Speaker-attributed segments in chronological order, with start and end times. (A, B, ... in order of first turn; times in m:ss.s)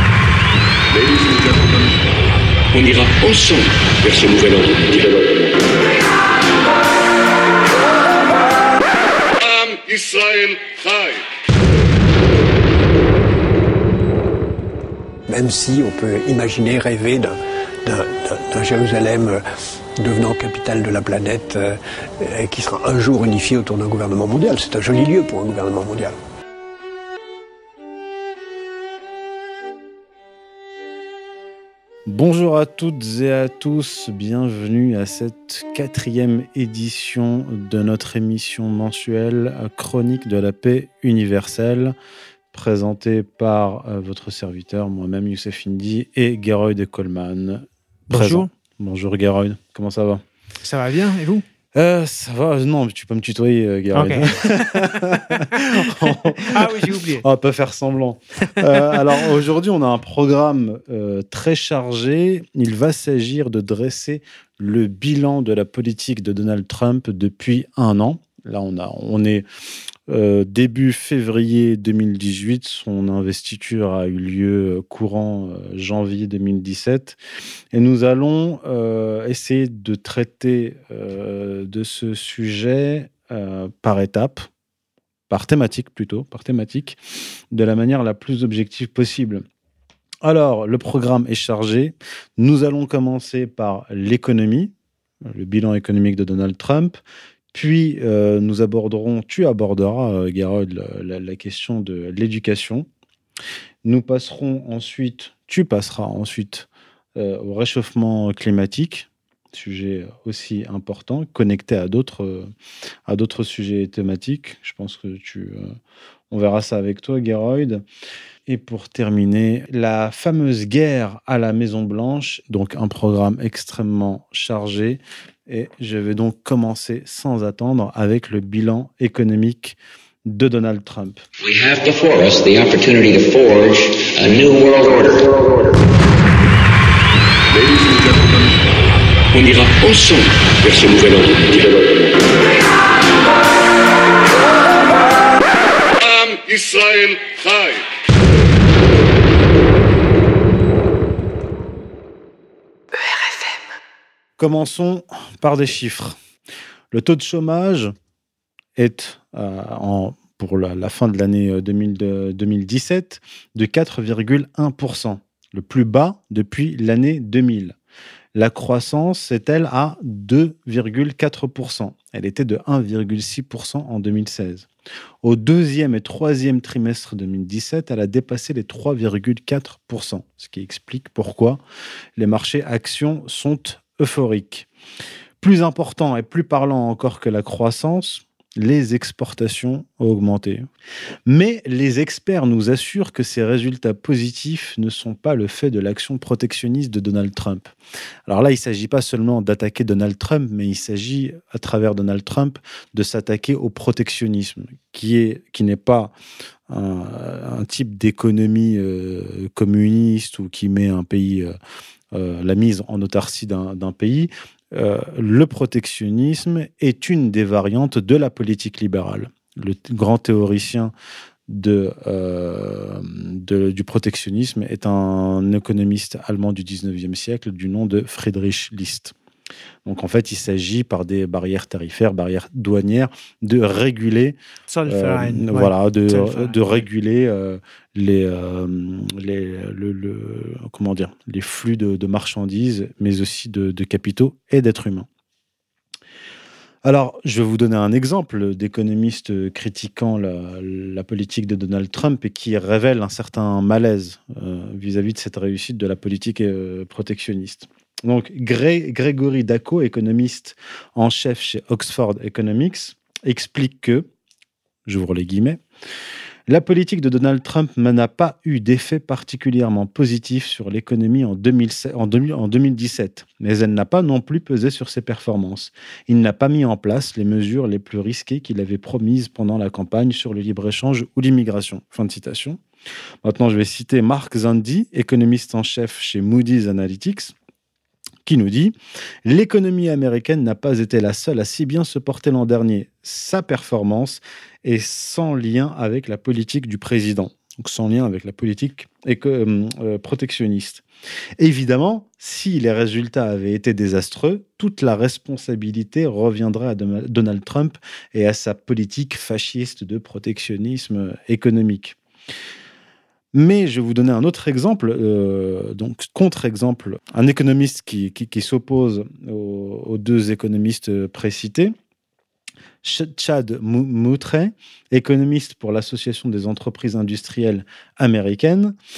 0:00.9-0:01.6 A
0:02.7-0:05.5 A
0:09.4-0:11.2 A
0:15.3-0:19.4 B
0:20.0-0:26.2 B
0:32.1-0:42.0 C
0:42.5-0:50.2 C
0:48.1-0:48.5 D
0:50.6-0:51.4 D
0:51.8-1:09.4 C
0:53.9-0:57.2 D
0:58.5-0:59.0 D
1:10.1-1:17.2 C
1:17.7-1:24.5 C
1:25.3-1:27.0 C
1:27.5-1:29.4 C
1:30.2-1:34.7 C
1:35.2-1:37.0 C
1:37.5-1:42.9 C
1:43.8-1:52.5 C
1:53.1-1:55.8 C
1:56.3-1:57.8 C
1:58.5-2:11.2 C
2:11.4-2:15.4 E
2:17.5-2:18.2 A
2:19.3-2:22.1 A
2:26.0-2:27.8 A
2:34.4-2:36.2 C
2:36.9-2:37.9 C
2:38.8-2:47.8 C
2:48.4-2:54.7 C
2:55.2-3:01.6 C
3:02.2-3:04.7 C
3:05.4-3:10.7 C
3:11.3-3:17.8 C
3:18.3-3:26.1 C
3:26.7-3:31.5 C
3:32.1-3:40.9 C
3:41.5-3:49.2 C
3:49.8-4:05.1 C
3:54.7-3:56.6 D
4:06.8-4:24.1 C
4:24.9-4:25.6 C
4:26.5-4:42.6 C
4:43.2-4:47.3 C
4:48.2-5:00.8 C
5:01.4-5:12.0 C
5:13.3-5:21.8 C
5:22.8-5:28.8 C